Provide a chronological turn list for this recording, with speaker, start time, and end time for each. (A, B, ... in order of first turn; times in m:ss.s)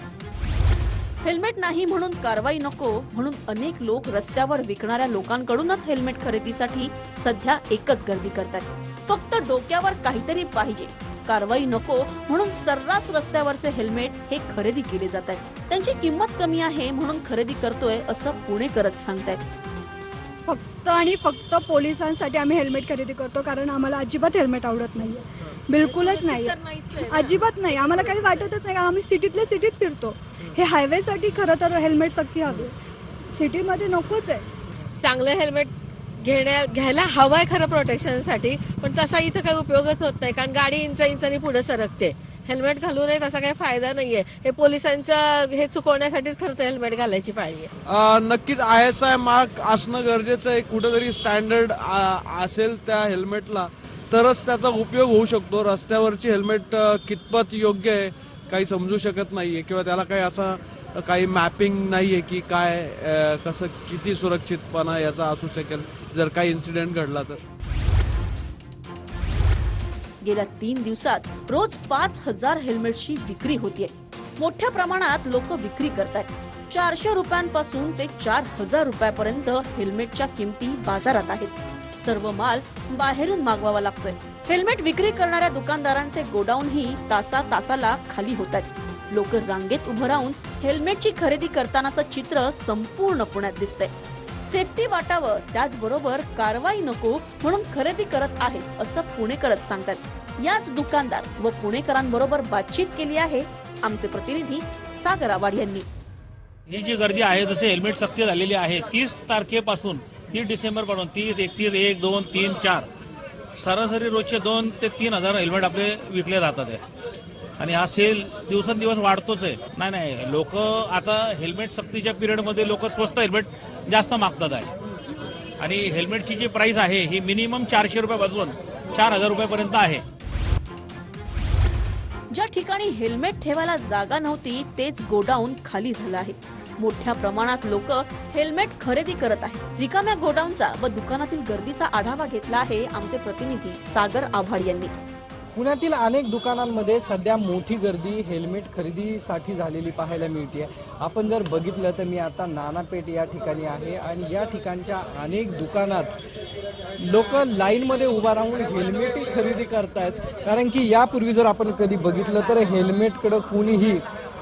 0:01.2-0:19.4 A
0:20.4-0:32.7 B
0:25.8-0:28.5 C
0:33.3-0:34.4 B
0:35.0-0:47.7 C
0:48.0-1:00.5 D
1:01.0-1:07.3 D
1:10.2-1:33.9 A
1:34.4-1:45.8 A
1:46.7-1:52.8 E
1:53.6-1:56.8 E
1:57.6-2:04.7 E
2:05.6-2:10.0 E
2:12.3-2:24.9 A
2:25.5-2:36.1 F
2:37.0-2:44.0 F